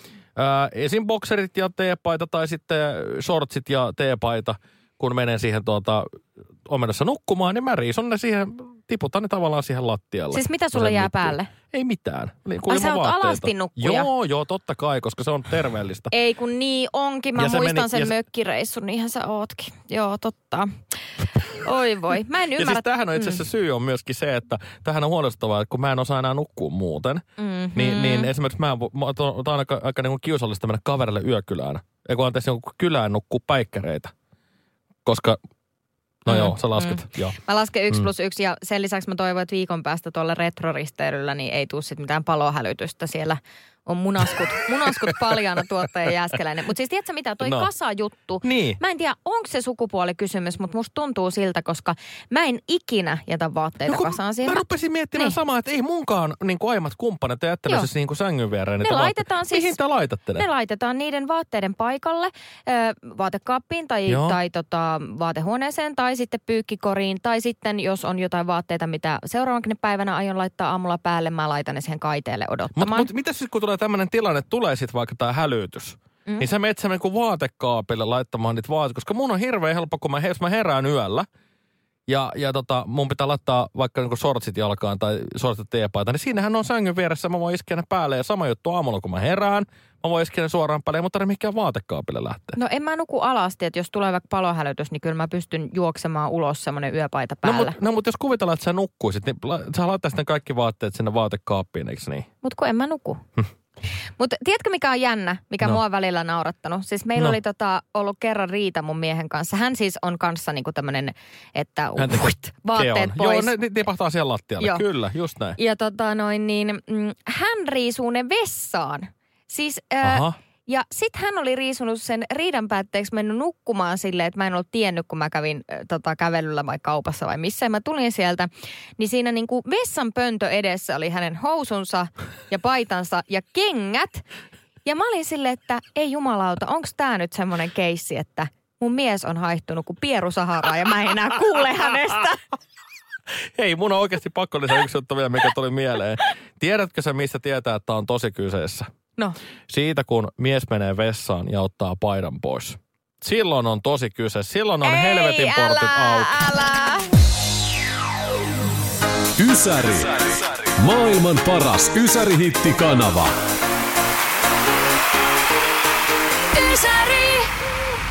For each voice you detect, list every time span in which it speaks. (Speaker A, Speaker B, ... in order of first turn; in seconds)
Speaker A: 0.3-6.0, 6.6-16.1, 17.4-18.1, 22.6-27.2, 27.7-34.1, 35.0-35.4, 36.2-37.4, 47.4-47.7, 48.4-48.8, 53.9-60.5, 64.1-64.4, 72.7-81.3, 82.1-92.6, 97.4-102.3, 112.0-115.6, 120.0-120.3, 143.6-148.9, 149.7-156.3
Speaker B: 10.3-11.5, 12.7-14.1, 16.1-20.8, 21.4-23.4, 27.4-28.3, 36.3-54.6, 58.8-59.8, 60.3-73.1, 92.5-97.8, 102.4-103.2, 104.2-113.5, 114.6-114.8, 115.5-134.2, 134.8-142.4, 154.8-157.1, 166.5-167.5
Speaker C: 159.4-163.3